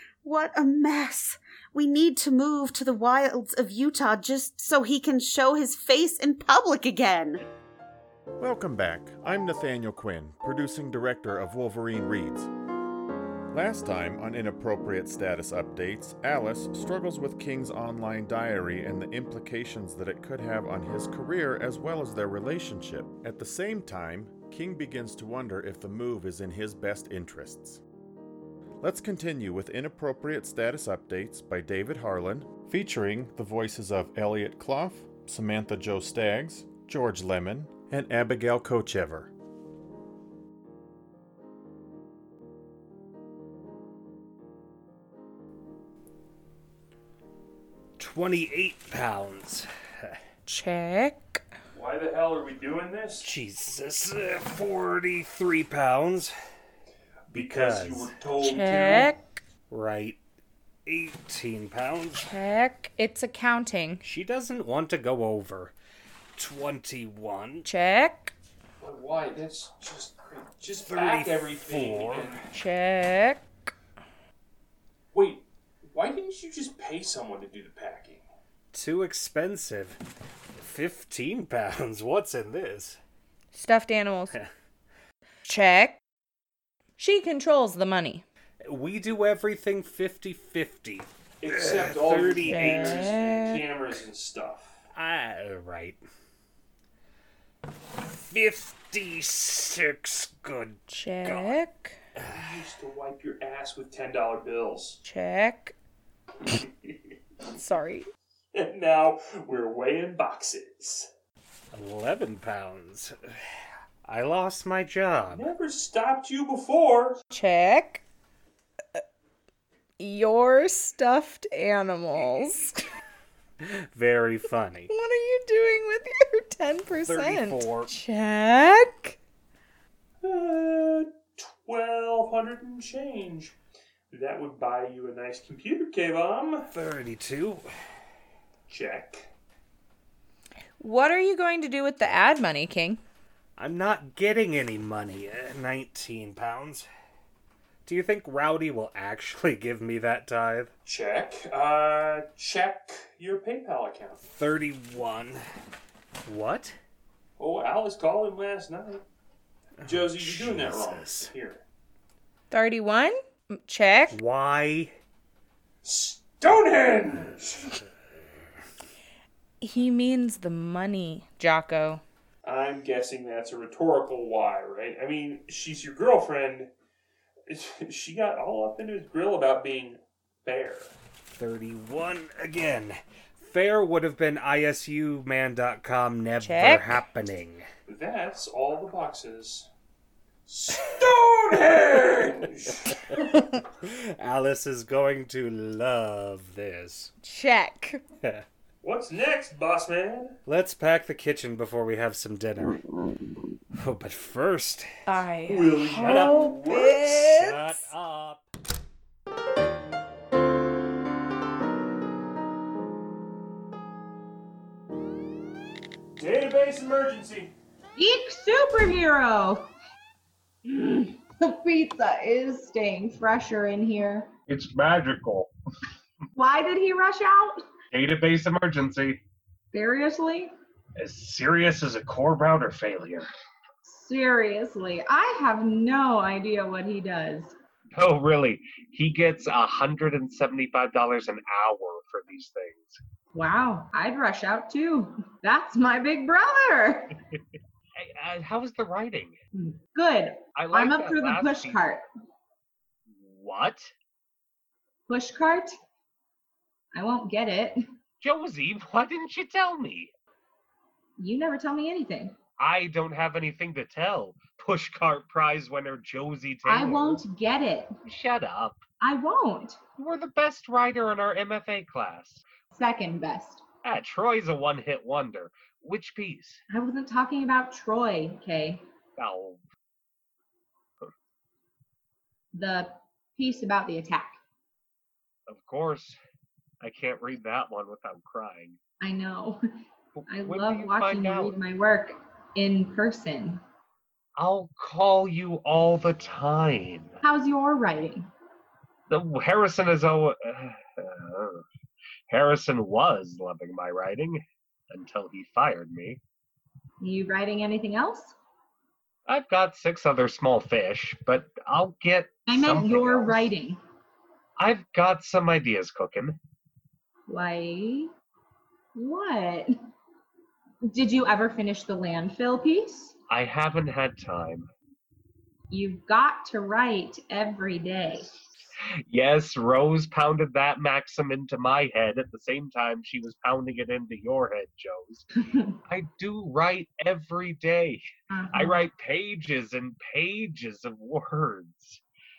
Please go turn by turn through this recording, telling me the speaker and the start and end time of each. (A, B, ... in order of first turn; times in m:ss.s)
0:00.2-0:07.4 A
0:08.4-0:12.5 B
0:13.5-0:27.8 B
0:28.8-0:39.3 B
0:48.0-0:50.2 C
0:50.5-0:51.4 D
0:51.7-0:53.3 E
0:53.2-0:56.3 C
0:57.3-0:59.1 E
0:57.3-0:58.1 C
0:58.4-0:59.4 D
0:59.7-1:00.2 C
1:00.9-1:02.3 C
1:02.2-1:04.0 D
1:04.0-1:05.8 C
1:06.4-1:07.7 C
1:07.6-1:08.3 D
1:08.8-1:12.5 E
1:10.8-1:12.4 C
1:12.5-1:13.4 D
1:15.1-1:18.3 E
1:18.7-1:20.0 C
1:20.6-1:23.0 C
1:23.5-1:24.4 D
1:25.4-1:26.0 D
1:27.0-1:28.2 D
1:28.6-1:33.2 C
1:31.4-1:34.7 E
1:32.4-1:33.7 D
1:34.9-1:36.0 C
1:38.0-1:41.6 C
1:40.9-1:42.0 D
1:42.2-1:42.7 C
1:42.3-1:45.0 E
1:45.0-1:45.8 D
1:46.6-1:46.9 E
1:47.5-1:48.1 D
1:48.5-1:51.1 E
1:51.7-1:53.2 C
1:54.0-1:55.5 C
1:55.3-1:57.2 E
1:57.3-1:58.0 D
2:00.0-2:02.8 D
2:03.6-2:04.9 C
2:04.9-2:09.2 D
2:07.0-2:07.9 C
2:10.2-2:13.6 E
2:14.1-2:16.7 E
2:16.7-2:17.7 C
2:18.7-2:19.3 E
2:20.8-2:23.0 D
2:23.6-2:26.9 C
2:27.9-2:30.7 C
2:30.8-2:34.2 E
2:34.2-2:35.4 C
2:36.3-2:36.8 C
2:37.4-2:39.0 E
2:39.8-2:41.3 C
2:39.8-2:41.6 E
2:42.5-2:44.2 D
2:44.1-2:44.9 C
2:45.8-2:47.7 E
2:49.6-2:52.0 D
2:52.4-2:56.7 E
2:57.5-3:01.0 E
3:01.3-3:07.7 C
3:06.4-3:07.0 D
3:07.9-3:09.7 E
3:10.5-3:13.2 E
3:11.5-3:17.1 C
3:17.2-3:18.0 D
3:18.8-3:20.4 E
3:20.5-3:22.8 C
3:23.7-3:24.9 C
3:25.1-3:27.9 D
3:25.5-3:26.9 E
3:25.9-3:28.5 C
3:36.2-3:37.5 E
3:38.0-3:39.7 F
3:40.6-3:44.3 F
3:44.5-3:45.5 G
3:46.4-3:47.6 F
3:47.9-3:49.2 G
3:49.7-3:50.5 F
3:51.0-3:53.3 G
3:53.8-3:57.6 F
3:58.0-4:03.0 G
4:03.3-4:07.2 F
4:08.0-4:09.4 G
4:09.6-4:12.0 F
4:10.6-4:11.9 G
4:13.1-4:13.9 G
4:15.1-4:15.7 F
4:16.9-4:17.8 F
4:18.2-4:20.1 G
4:21.2-4:22.4 F
4:22.6-4:27.2 G
4:26.6-4:28.0 F
4:28.0-4:28.8 G
4:29.0-4:29.8 F
4:30.0-4:32.4 G
4:32.7-4:33.6 F
4:33.8-4:36.6 G
4:36.7-4:38.8 F
4:39.2-4:39.6 G
4:42.5-4:44.4 F
4:45.5-4:46.2 G
4:46.8-4:48.8 G
4:49.0-4:49.6 F
4:50.2-4:51.6 G
4:50.3-4:53.6 F
4:54.4-4:57.2 G
4:57.2-4:58.3 F
4:59.1-5:01.6 G
5:02.3-5:06.2 G
5:07.0-5:08.4 F
5:09.3-5:13.5 G
5:12.5-5:13.8 F
5:14.6-5:16.4 G
5:17.3-5:18.1 F
5:19.0-5:19.7 F
5:20.8-5:23.2 F
5:23.3-5:24.7 G
5:25.7-5:28.3 F
5:29.1-5:35.3 G
5:35.4-5:35.8 F
5:35.9-5:42.0 G
5:38.3-5:38.8 F